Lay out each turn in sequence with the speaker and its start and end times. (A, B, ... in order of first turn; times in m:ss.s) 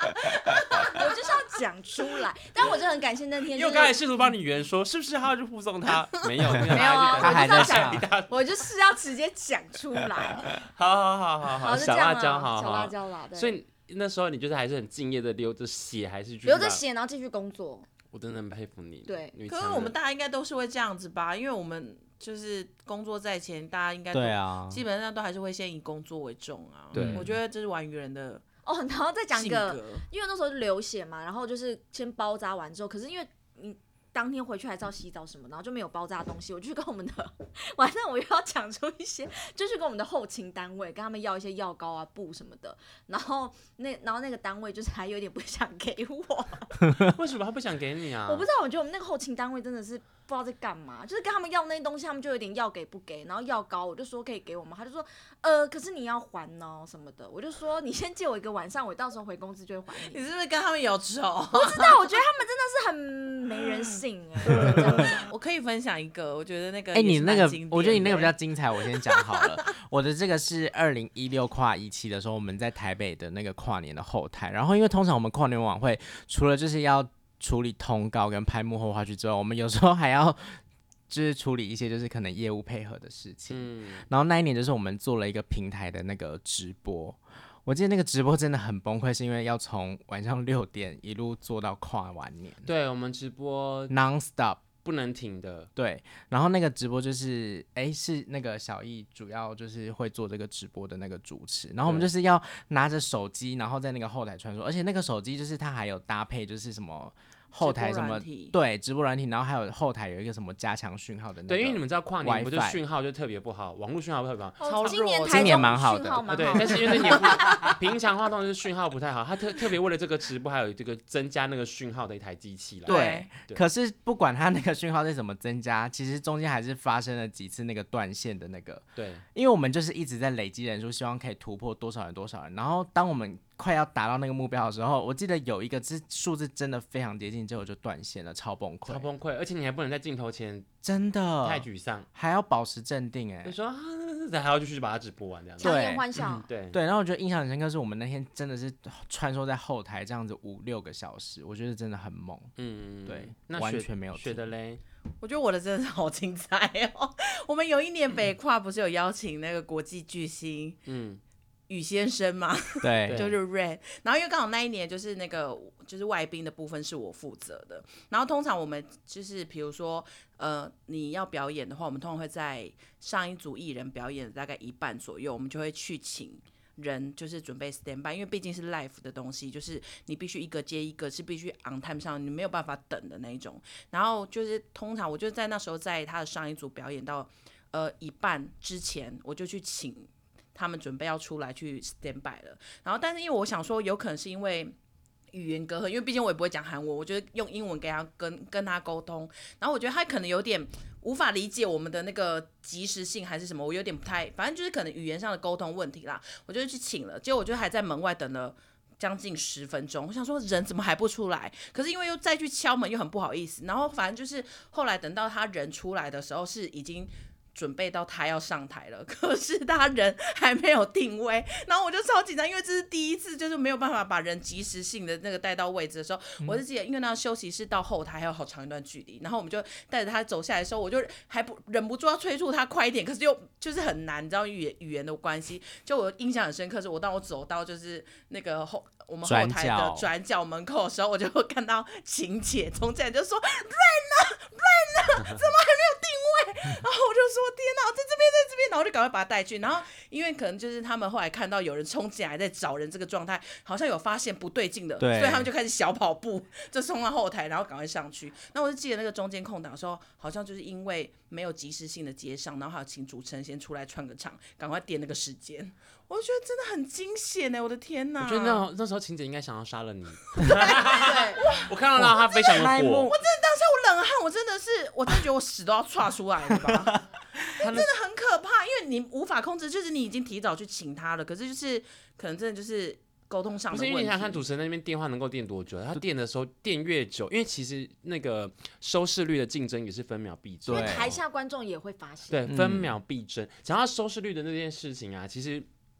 0:00.8-0:04.0 A
0:03.5-0:08.4 B
0:06.6-0:08.1 C
0:06.7-0:10.5 A
0:10.5-0:16.8 B
0:11.6-0:13.6 A
0:16.4-0:17.9 A
0:18.1-0:20.0 B
0:19.1-0:19.4 A
0:19.5-0:28.4 D
0:24.1-0:24.8 C
0:26.9-0:27.3 B
0:27.0-0:27.3 C
0:28.6-0:46.9 A
0:29.3-0:30.0 D
0:47.0-0:48.5 B
0:48.3-1:00.2 A
1:00.0-1:02.0 D
1:01.5-1:05.3 A
1:04.4-1:09.6 D
1:06.9-1:32.7 C
1:23.5-1:24.1 B
1:32.6-1:33.9 B
1:33.9-1:34.6 C
1:34.8-1:35.7 B
1:35.8-1:52.8 C
1:41.8-1:42.1 B
1:47.6-1:48.6 D
1:51.5-1:54.7 B
1:54.6-1:57.7 A
1:54.6-1:55.8 D
1:55.3-1:57.2 C
1:56.3-2:03.6 B
1:56.4-1:57.7 D
2:02.9-2:03.3 D
2:02.9-2:19.1 C
2:09.0-2:09.2 B
2:18.9-2:20.7 B
2:20.8-2:23.6 C
2:21.4-2:22.1 B
2:23.4-2:26.8 B
2:25.6-2:26.5 A
2:25.6-2:26.1 C
2:26.7-2:32.5 C
2:32.6-2:34.8 B
2:33.1-2:34.4 C
2:35.2-2:40.8 D
2:40.9-2:41.2 B
2:41.7-3:14.8 D
2:42.8-2:43.3 C
2:43.1-2:43.4 B
3:15.3-4:28.6 D
3:59.2-4:00.1 C
4:15.0-4:15.5 C
4:28.2-4:33.1 B
4:30.4-4:31.7 D
4:31.0-4:31.4 A
4:32.0-4:33.1 C
4:32.3-4:37.0 D
4:36.6-4:36.9 C
4:37.6-4:37.9 B
4:37.6-4:44.4 D
4:43.7-4:51.2 B
4:50.7-4:51.2 C
4:50.7-4:52.4 A
4:52.3-4:55.7 B
4:52.5-4:53.0 C